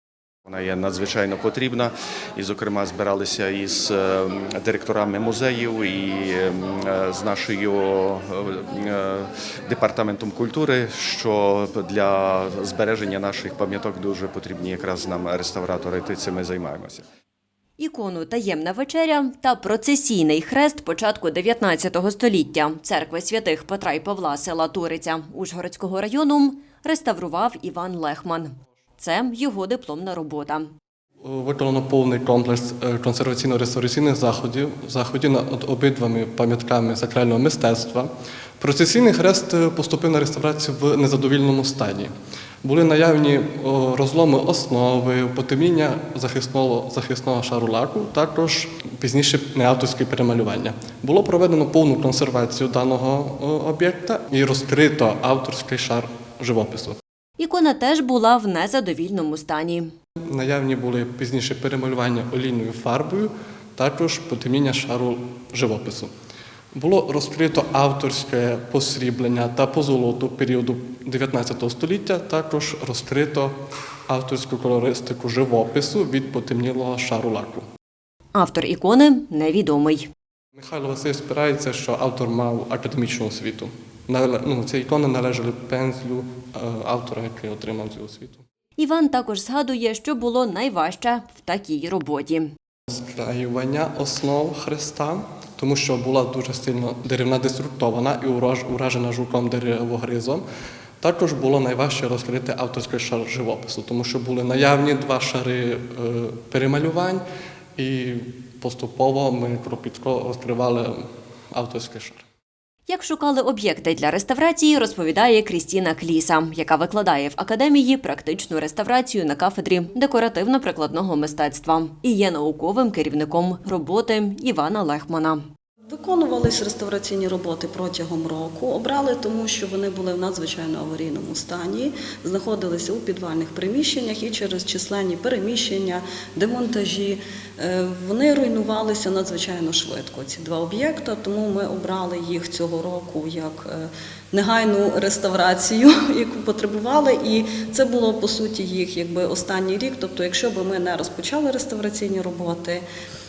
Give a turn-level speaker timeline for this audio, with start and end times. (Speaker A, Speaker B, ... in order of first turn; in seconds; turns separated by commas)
Speaker A: 0.5-17.0, Speaker B: 17.8-30.7, Speaker C: 31.2-42.1, Speaker C: 42.6-57.0, Speaker B: 57.4-59.9, Speaker C: 60.3-66.1, Speaker C: 66.7-77.7, Speaker B: 78.3-80.1, Speaker C: 80.5-88.4, Speaker B: 88.8-92.5, Speaker C: 92.9-100.4, Speaker C: 101.0-107.2, Speaker C: 107.8-112.2, Speaker B: 112.9-125.4, Speaker D: 125.9-152.8